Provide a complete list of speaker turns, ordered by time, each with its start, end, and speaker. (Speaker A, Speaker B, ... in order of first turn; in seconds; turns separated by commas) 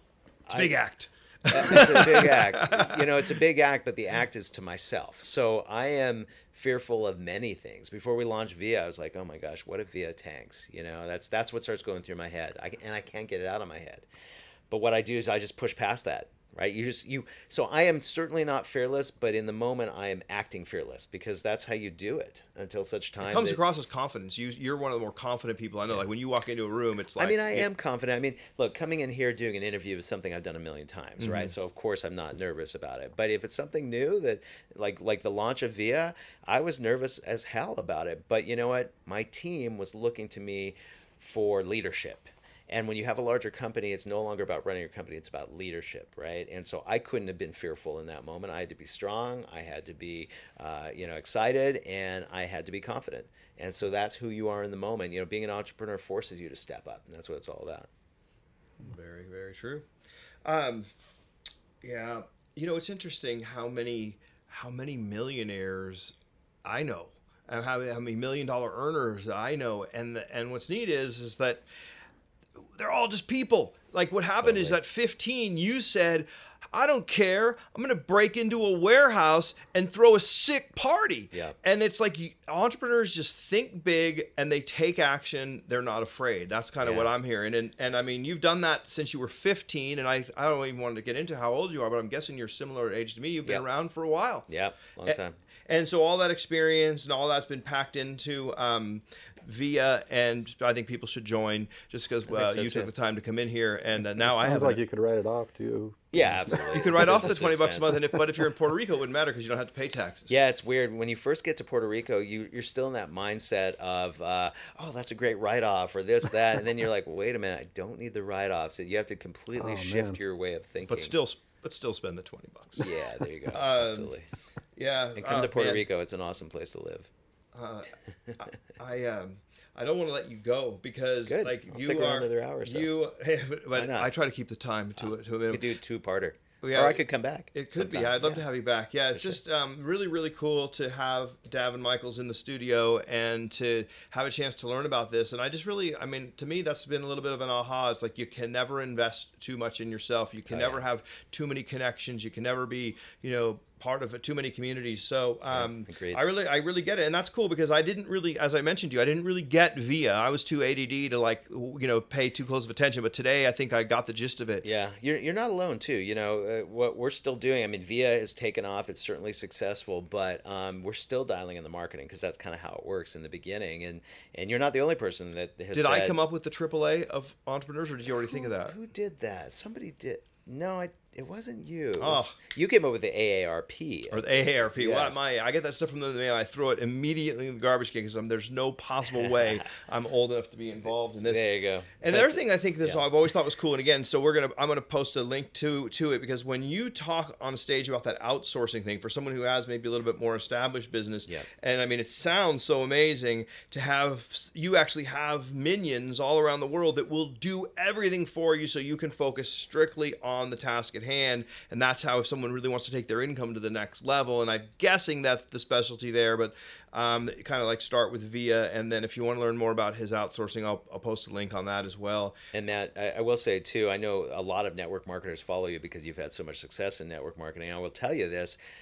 Speaker A: 0.5-0.7, Speaker B: 0.5-3.3, Speaker A: 1.5-14.1, Speaker A: 14.7-23.6, Speaker B: 23.2-27.7, Speaker A: 27.2-57.9, Speaker B: 31.2-31.5, Speaker B: 58.8-59.9, Speaker B: 60.4-60.9, Speaker B: 61.8-71.6, Speaker B: 72.8-94.5, Speaker A: 74.4-74.8, Speaker A: 86.8-87.1, Speaker A: 94.5-95.3, Speaker B: 95.1-104.8, Speaker A: 102.3-102.9, Speaker C: 104.2-106.7, Speaker A: 106.1-108.0, Speaker B: 106.7-110.3, Speaker A: 110.3-121.2, Speaker C: 119.6-120.2, Speaker B: 120.9-122.9, Speaker A: 122.8-124.3, Speaker B: 123.5-124.1, Speaker B: 124.8-125.8, Speaker A: 125.1-127.1, Speaker B: 127.5-135.7, Speaker A: 131.3-132.9, Speaker A: 133.7-134.1, Speaker A: 135.0-138.4, Speaker B: 136.6-164.6, Speaker A: 139.1-139.4, Speaker A: 150.4-150.8, Speaker A: 155.5-156.2, Speaker A: 164.6-176.2, Speaker B: 175.7-178.8, Speaker A: 178.2-185.2, Speaker B: 182.0-182.4, Speaker B: 184.1-191.5, Speaker A: 189.1-189.7, Speaker A: 191.2-193.0, Speaker B: 192.0-222.3, Speaker A: 222.5-228.6